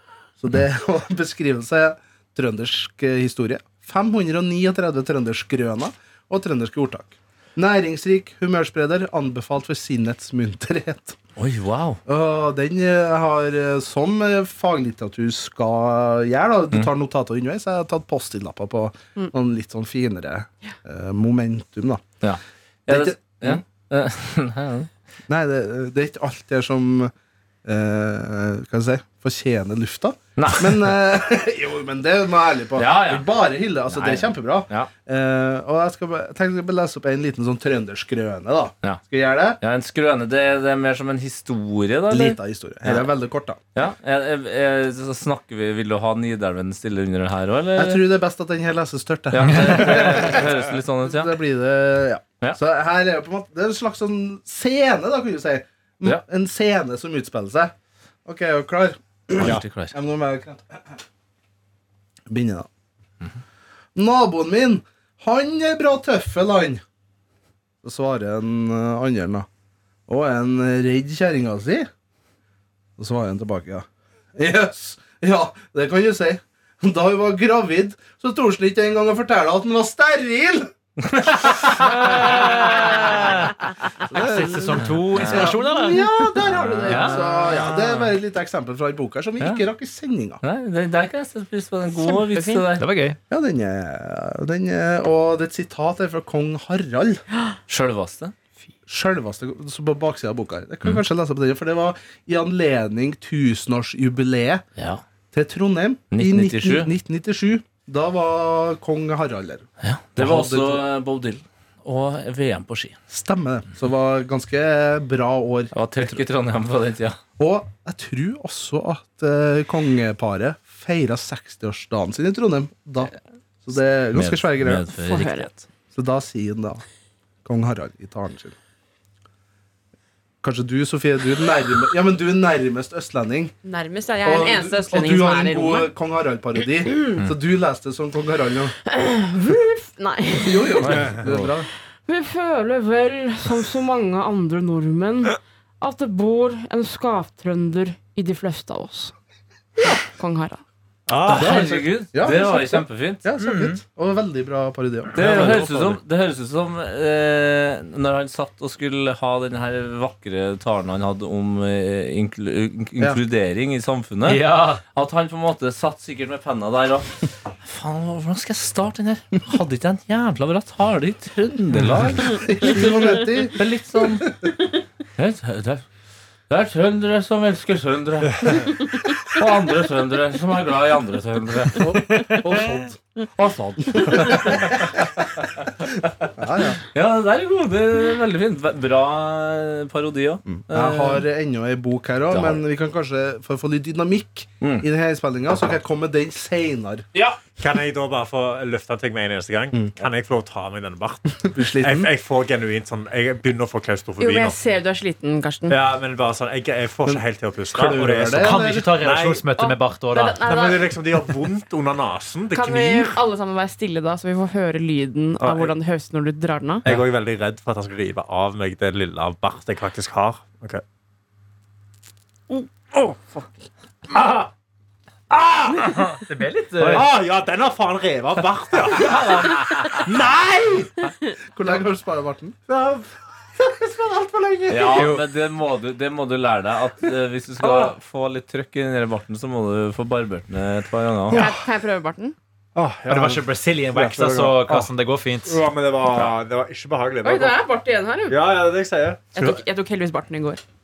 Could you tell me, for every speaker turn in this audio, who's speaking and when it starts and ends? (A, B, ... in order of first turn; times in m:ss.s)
0:00.4-0:11.2 A
0:11.4-0:12.0 B
0:12.1-0:22.0 A
0:22.2-0:24.9 B
0:22.9-0:23.6 A
0:25.3-0:27.1 A
0:27.6-0:39.6 A
0:30.4-0:31.0 B
0:32.8-0:33.3 B
0:33.9-0:34.9 B
0:39.6-0:43.1 B
0:42.1-0:43.6 A
0:43.8-0:48.0 B
0:47.8-0:57.7 A
0:49.3-0:51.3 B
0:49.5-0:49.9 C
0:58.2-1:01.0 A
0:59.4-1:00.0 B
1:02.3-1:02.7 A
1:04.0-1:06.8 A
1:07.8-1:09.5 A
1:10.1-1:11.9 A
1:13.0-1:20.7 A
1:21.0-1:23.1 B
1:21.3-1:22.4 A
1:22.2-1:23.5 C
1:24.0-1:30.4 A
1:24.1-1:26.0 C
1:25.1-1:25.5 B
1:26.4-1:28.1 B
1:26.9-1:27.2 C
1:30.4-1:32.8 B
1:32.0-1:32.6 D
1:32.8-1:33.2 C
1:33.3-1:37.2 A
1:37.7-1:38.3 B
1:38.9-1:44.6 A
1:44.8-1:45.0 B
1:45.3-1:49.7 A
1:46.1-1:46.9 B
1:49.8-1:53.0 B
1:50.2-1:50.8 A
1:53.1-1:55.8 A
1:55.7-1:57.2 B
1:57.4-2:03.1 A
2:03.6-2:04.9 A
2:04.1-2:05.6 B
2:05.0-2:05.5 D
2:05.9-2:06.8 A
2:07.4-2:08.6 A
2:10.4-2:13.5 A
2:13.6-2:15.9 D
2:14.2-2:18.8 A
2:18.9-2:21.0 D
2:20.4-2:21.7 A
2:20.9-2:21.5 B
2:22.1-2:29.2 D
2:29.9-2:30.6 D
2:31.1-2:31.8 E
2:31.3-2:33.7 B
2:31.3-2:35.5 A
2:35.2-2:52.9 B
2:35.2-2:36.0 E
2:35.2-2:35.5 C
2:44.2-2:44.8 C
2:52.2-2:54.2 A
2:53.5-2:54.4 B
2:55.2-2:55.8 B
2:56.5-3:02.3 B
3:01.8-3:03.0 A
3:02.1-3:02.4 C
3:03.4-3:05.0 B
3:03.8-3:04.8 A
3:06.4-3:06.8 A
3:06.9-3:11.2 B
3:10.5-3:17.1 A
3:12.3-3:12.6 B
3:14.6-3:14.9 B
3:17.1-3:17.4 B
3:17.6-3:24.6 E
3:21.4-3:22.1 A
3:24.2-3:25.8 D
3:25.7-3:29.5 E
3:27.1-3:28.9 A
3:28.4-3:30.4 C
3:29.6-3:31.0 D
3:30.4-3:33.2 E
3:32.5-3:36.9 D
3:35.4-3:35.7 E
3:36.8-3:40.8 E
3:42.5-3:43.4 E
3:44.1-3:44.5 E
3:45.3-3:46.1 E
3:45.8-3:47.1 C
3:46.8-3:50.9 E
3:51.5-3:52.6 A
3:52.7-3:53.1 E
3:53.7-3:55.2 E
3:54.7-4:01.5 B
3:57.6-3:57.9 E
4:01.3-4:02.4 D
4:02.8-4:04.9 E
4:03.1-4:05.6 C
4:05.5-4:07.6 E
4:07.2-4:08.4 D
4:08.3-4:09.6 E
4:09.3-4:10.6 D